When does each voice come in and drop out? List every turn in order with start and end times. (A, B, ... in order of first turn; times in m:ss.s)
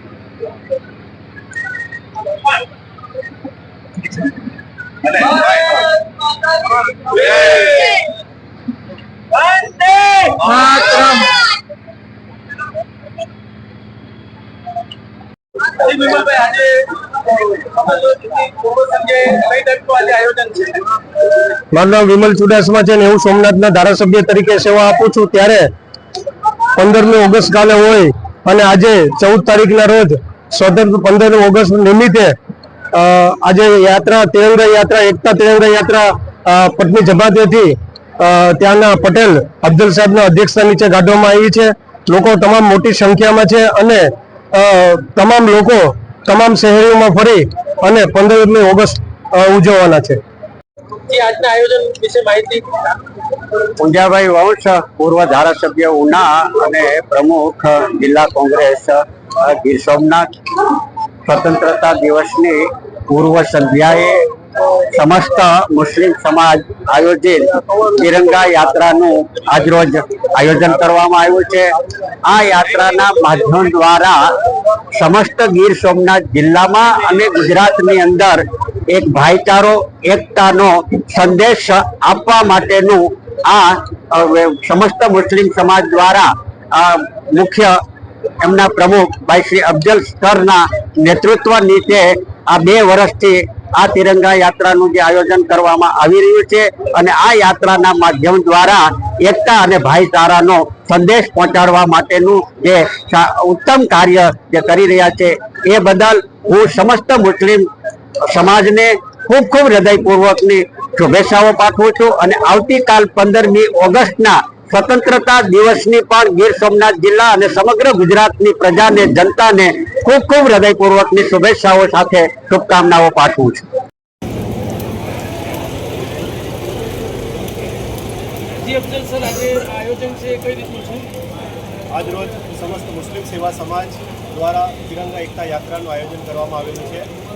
0:05.2-0:05.6 A
0:07.0-0:08.0 A
0:09.3-0:11.4 A
0:15.7-0:20.9 A
0:21.7-0:25.7 B
0:26.8-0:32.4 B
0:32.9-0:50.2 B
0:51.1-0:53.0 A
0:53.8-1:00.3 C
1:01.3-1:04.2 C
1:04.9-1:11.7 C
1:12.2-1:14.2 C
1:14.9-1:27.8 C
1:28.4-1:47.7 C
1:48.3-2:03.7 C
2:08.6-2:11.1 A
2:11.9-2:17.1 D